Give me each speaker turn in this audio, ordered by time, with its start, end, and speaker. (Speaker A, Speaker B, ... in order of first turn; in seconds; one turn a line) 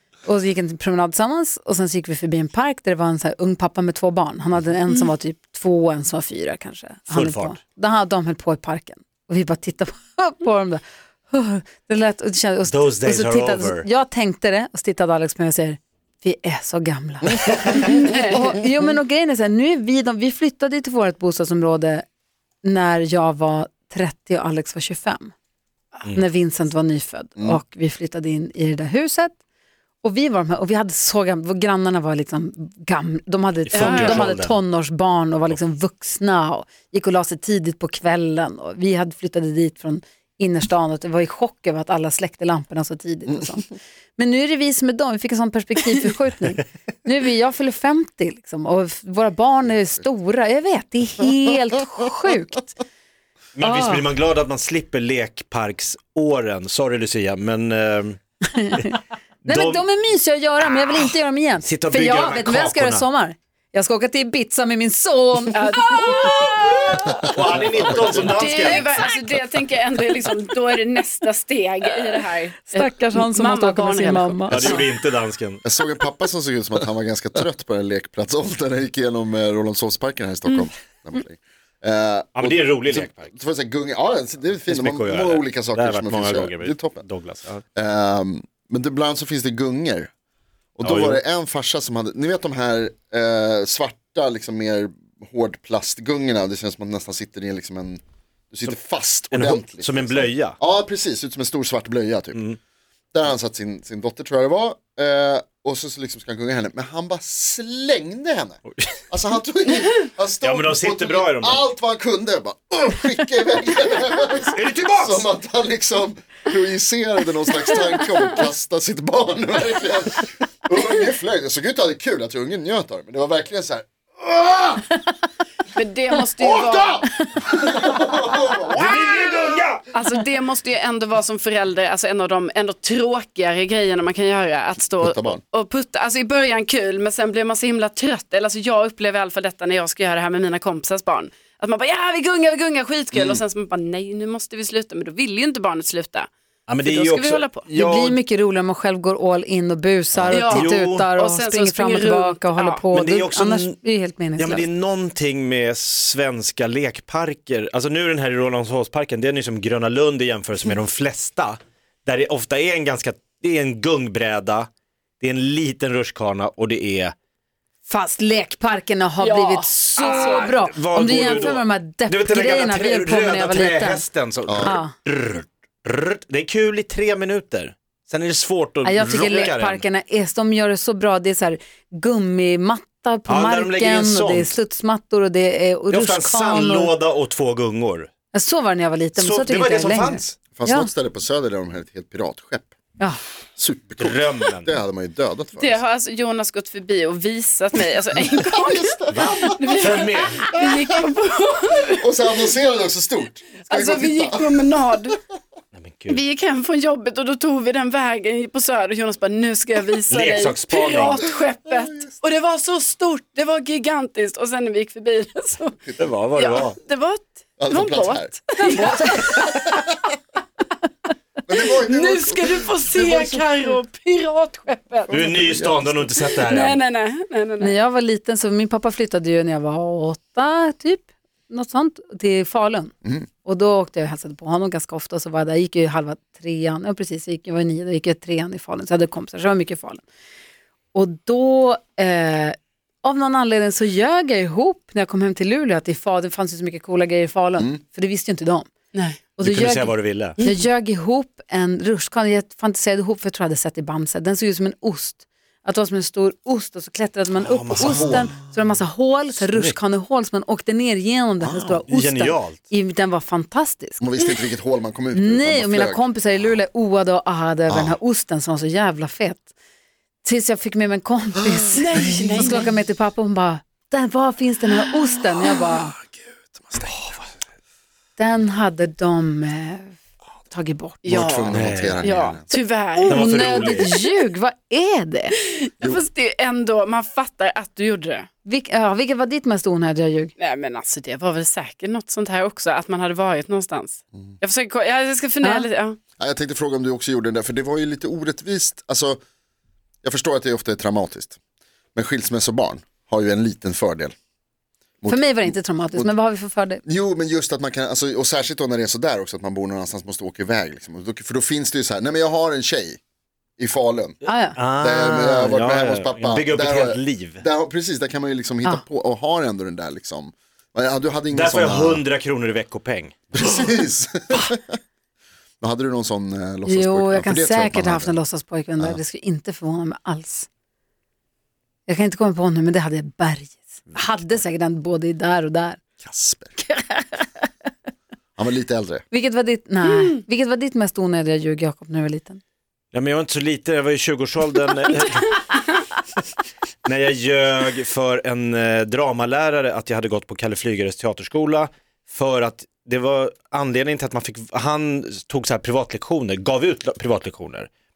Speaker A: 0.2-22.1
Speaker B: 7.1-7.6
Speaker B: 12.6-13.9
Speaker C: 17.8-18.4
Speaker A: 22.6-25.3
Speaker A: 26.1-29.4
Speaker A: 30.0-52.7
Speaker B: 33.7-34.6
Speaker C: 33.7-34.3
Speaker B: 53.6-58.2
Speaker A: 53.6-54.1
Speaker A: 58.5-59.0
Speaker B: 59.5-59.8
Speaker A: 59.5-66.0
Speaker B: 61.6-63.0
Speaker C: 65.5-67.1
Speaker B: 67.3-69.1
Speaker C: 67.8-74.8
Speaker A: 72.7-74.8
Speaker B: 74.5-75.6
Speaker D: 75.6-87.0
Speaker B: 82.3-83.3
Speaker B: 84.7-87.6
Speaker D: 87.8-90.1
Speaker D: 90.8-102.5
Speaker B: 90.8-91.2
Speaker B: 99.3-100.6
Speaker D: 103.1-124.9
Speaker B: 108.7-109.0
Speaker B: 110.4-111.7
Speaker B: 114.4-115.3
Speaker C: 125.8-127.1
Speaker D: 126.4-127.0
Speaker D: 127.6-128.9
Speaker B: 128.7-129.8
Speaker C: 129.9-146.3
Speaker D: 135.0-135.4
Speaker B: 146.7-148.2
Speaker C: 146.8-147.7
Speaker A: 147.7-154.7
Speaker B: 150.2-151.1
Speaker C: 150.3-152.8
Speaker B: 152.9-153.8
Speaker B: 154.4-164.7
Speaker B: 165.2-167.1
Speaker A: 167.9-174.1
Speaker C: 169.2-171.5
Speaker B: 170.0-179.8
Speaker D: 174.5-174.8
Speaker A: 174.6-174.9
Speaker A: 178.8-186.9
Speaker B: 183.3-184.6
Speaker B: 185.9-188.1
Speaker A: 188.3-190.9
Speaker B: 189.2-190.4
Speaker D: 190.6-192.7
Speaker D: 193.6-195.8
Speaker B: 194.0-194.8
Speaker C: 195.6-202.5
Speaker D: 198.5-199.7
Speaker B: 199.1-200.6
Speaker D: 201.9-204.5
Speaker C: 203.6-205.2
Speaker B: 205.7-206.2
Speaker C: 206.1-215.8
Speaker B: 210.1-211.2
Speaker D: 211.2-212.1
Speaker B: 216.0-216.8
Speaker C: 216.3-219.9
Speaker D: 217.6-218.3
Speaker A: 218.8-219.5
Speaker D: 221.5-223.5
Speaker C: 221.8-225.3
Speaker D: 225.1-226.1
Speaker B: 225.1-226.8
Speaker C: 226.2-227.7
Speaker A: 227.6-240.1
Speaker A: 240.9-248.7
Speaker C: 248.9-249.3
Speaker A: 249.4-264.0
Speaker B: 249.4-250.4
Speaker C: 250.4-250.6
Speaker B: 257.4-258.4
Speaker D: 257.8-258.4
Speaker B: 259.4-259.8
Speaker D: 261.4-261.8
Speaker B: 261.9-262.6
Speaker D: 264.0-266.1
Speaker A: 265.1-269.5
Speaker D: 267.7-268.0
Speaker A: 270.2-275.9
Speaker C: 271.6-272.7
Speaker B: 276.8-277.2
Speaker A: 278.2-280.0
Speaker A: 280.5-281.0
Speaker C: 281.1-283.7
Speaker D: 281.1-282.5
Speaker B: 281.5-282.0
Speaker A: 282.9-285.4
Speaker B: 283.1-283.9
Speaker C: 285.4-288.3
Speaker A: 288.4-290.3
Speaker C: 290.4-296.0
Speaker A: 295.4-295.7
Speaker D: 296.2-299.2
Speaker D: 300.0-301.4
Speaker D: 301.9-304.1
Speaker D: 305.0-306.1
Speaker A: 305.1-306.8
Speaker D: 306.9-313.0
Speaker D: 313.6-314.2
Speaker A: 314.2-314.6
Speaker B: 314.6-317.4
Speaker D: 314.8-322.0
Speaker B: 321.3-323.2
Speaker D: 323.4-324.7
Speaker D: 325.6-328.2
Speaker A: 326.7-330.5
Speaker A: 331.9-335.8
Speaker B: 333.9-334.3
Speaker D: 336.0-336.5
Speaker A: 336.6-337.3
Speaker D: 338.4-339.1
Speaker A: 339.1-342.4
Speaker C: 339.9-340.1
Speaker B: 342.9-345.6
Speaker B: 346.9-357.7